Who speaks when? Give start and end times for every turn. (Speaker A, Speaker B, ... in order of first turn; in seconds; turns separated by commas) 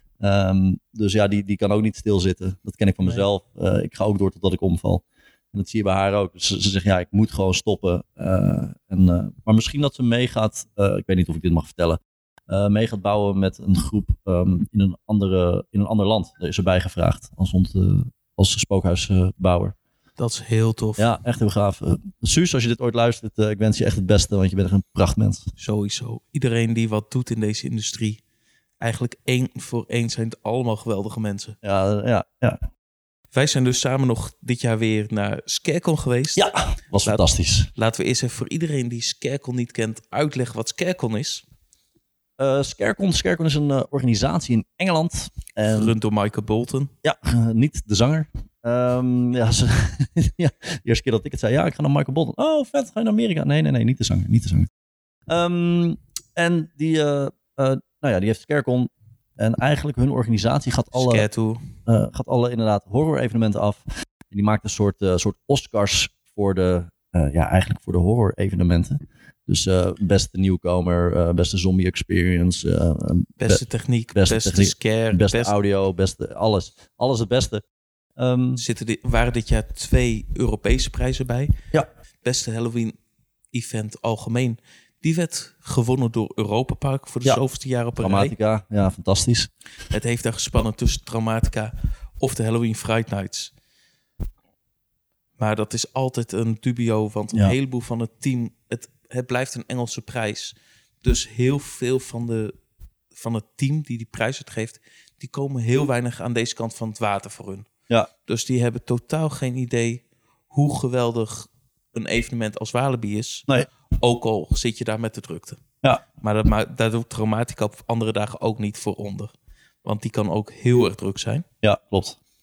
Speaker A: 0.2-19.7, Speaker B: 20.2-21.1, Speaker A: 21.0-25.5, Speaker B: 25.6-28.2, Speaker B: 28.8-31.6, Speaker A: 31.6-32.6, Speaker B: 33.3-36.5, Speaker A: 36.4-37.7, Speaker B: 37.7-41.4, Speaker A: 42.4-45.9, Speaker B: 45.7-46.9, Speaker A: 47.0-54.7, Speaker A: 55.3-61.2, Speaker B: 60.9-61.7, Speaker A: 61.9-73.6, Speaker B: 73.4-75.5, Speaker A: 74.1-77.6, Speaker A: 78.2-78.6, Speaker B: 78.6-81.5, Speaker B: 82.2-83.0, Speaker B: 83.5-88.3, Speaker A: 88.0-89.5, Speaker B: 89.9-93.5, Speaker B: 95.4-102.5, Speaker B: 103.1-107.7, Speaker B: 108.2-115.6, Speaker B: 116.2-119.3, Speaker B: 119.8-121.4, Speaker A: 121.6-122.2